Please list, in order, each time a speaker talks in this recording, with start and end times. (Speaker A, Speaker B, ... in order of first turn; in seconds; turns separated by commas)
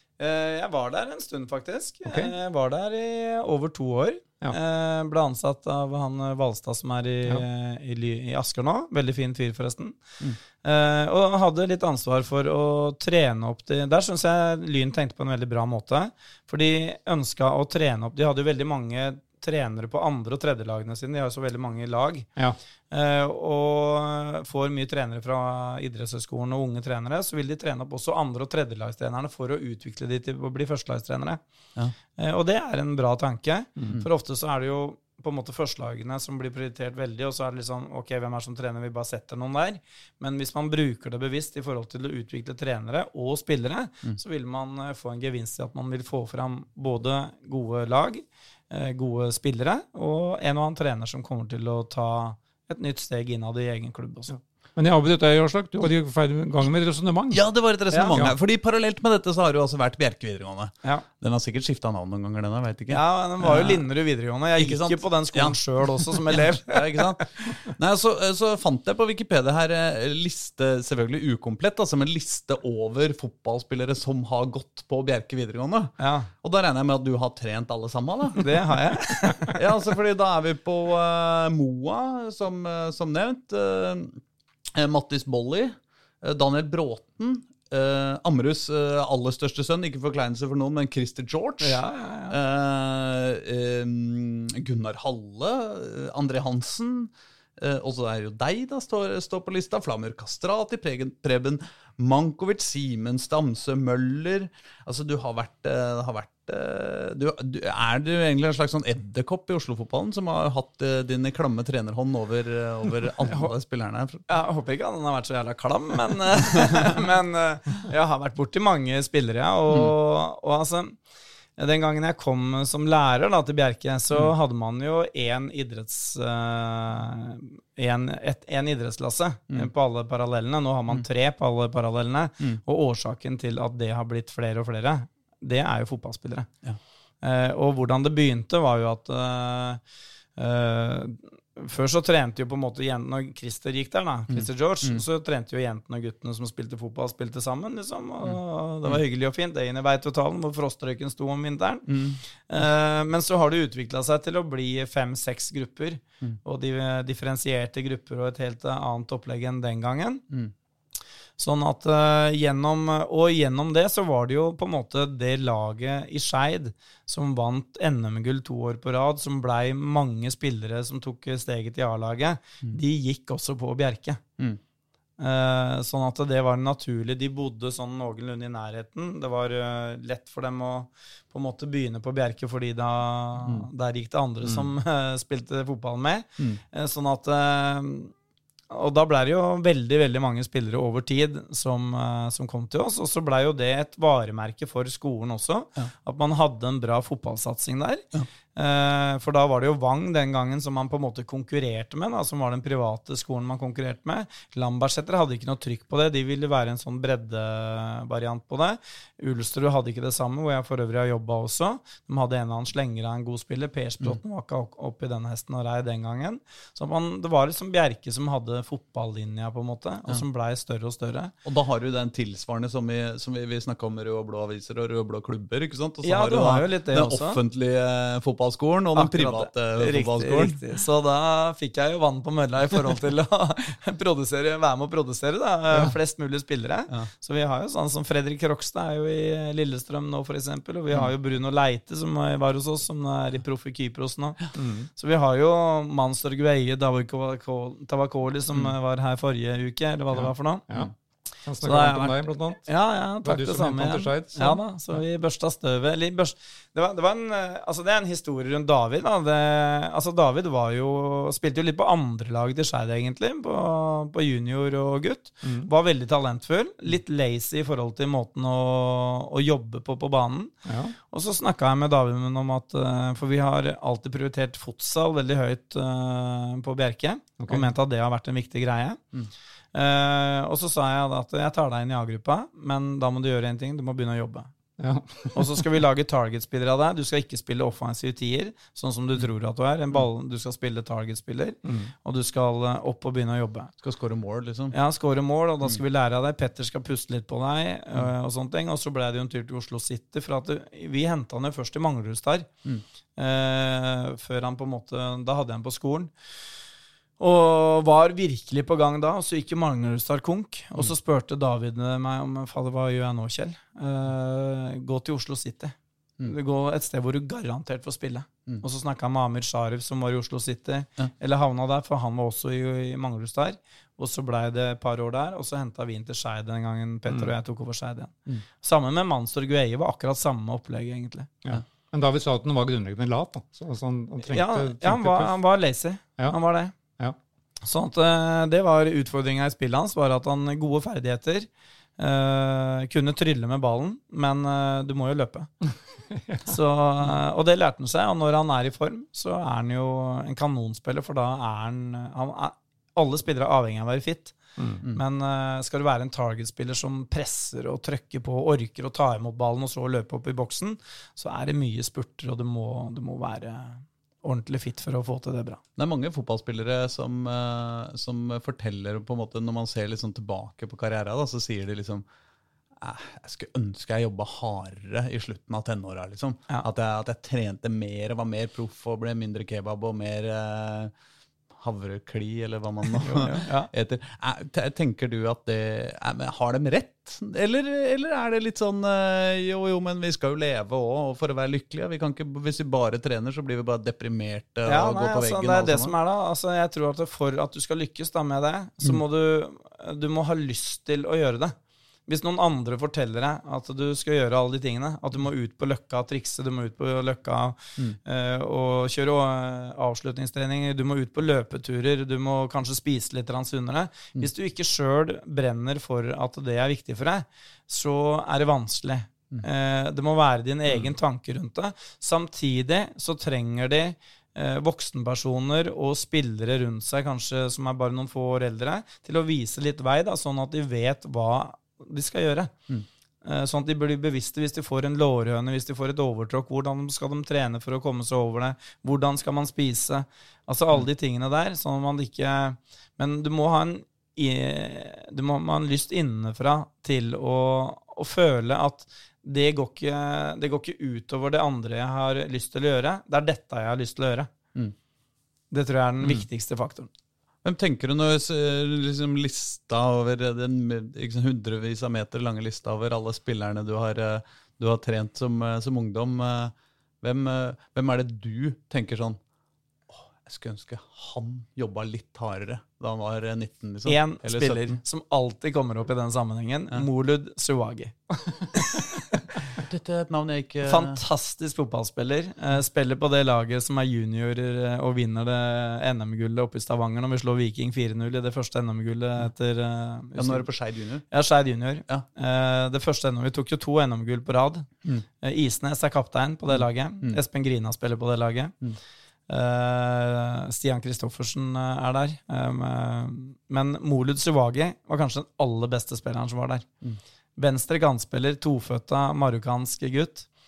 Speaker A: 0.2-10.0, Speaker B: 2.1-2.3, Speaker A: 10.6-22.3, Speaker A: 22.9-31.4, Speaker A: 32.2-54.4, Speaker B: 54.8-57.4, Speaker C: 57.3-63.8, Speaker A: 57.9-58.2, Speaker A: 62.9-67.2, Speaker C: 64.6-78.5, Speaker A: 76.0-76.3, Speaker A: 78.4-79.6, Speaker C: 79.5-84.2, Speaker C: 84.7-114.2, Speaker A: 91.6-92.4, Speaker A: 114.3-121.0, Speaker A: 121.6-136.5, Speaker A: 137.2-139.8, Speaker A: 140.4-151.9, Speaker C: 144.3-145.0, Speaker C: 151.9-152.2, Speaker A: 152.5-160.2, Speaker A: 161.4-174.2, Speaker A: 175.2-188.1, Speaker A: 188.7-221.3, Speaker C: 221.4-230.6, Speaker A: 226.0-227.4, Speaker A: 228.9-250.7, Speaker B: 244.6-244.9, Speaker B: 251.4-252.7, Speaker A: 251.6-270.5, Speaker B: 253.2-254.6, Speaker B: 265.4-265.7, Speaker B: 270.7-270.9, Speaker A: 271.1-279.0, Speaker B: 277.4-277.6, Speaker A: 279.7-284.5, Speaker B: 284.8-285.5, Speaker A: 285.3-293.7, Speaker B: 291.6-291.9, Speaker C: 293.8-294.7, Speaker A: 294.7-302.5, Speaker A: 303.2-306.1, Speaker A: 307.2-331.3, Speaker B: 331.4-335.3, Speaker A: 334.3-336.7, Speaker A: 337.7-345.5, Speaker A: 346.5-354.4, Speaker B: 354.6-354.8, Speaker A: 354.9-365.6, Speaker C: 365.8-372.1, Speaker C: 372.8-380.9, Speaker C: 381.6-395.9, Speaker A: 383.0-383.7, Speaker A: 394.7-401.6, Speaker A: 402.1-432.5, Speaker A: 433.2-454.3, Speaker A: 455.5-456.9, Speaker C: 457.4-469.2, Speaker C: 469.9-474.8, Speaker A: 473.9-478.0, Speaker A: 478.5-479.0, Speaker C: 479.6-481.0, Speaker A: 480.6-490.5, Speaker C: 490.2-491.1, Speaker A: 491.1-494.7, Speaker A: 495.2-498.5, Speaker A: 499.3-506.7, Speaker A: 507.4-510.3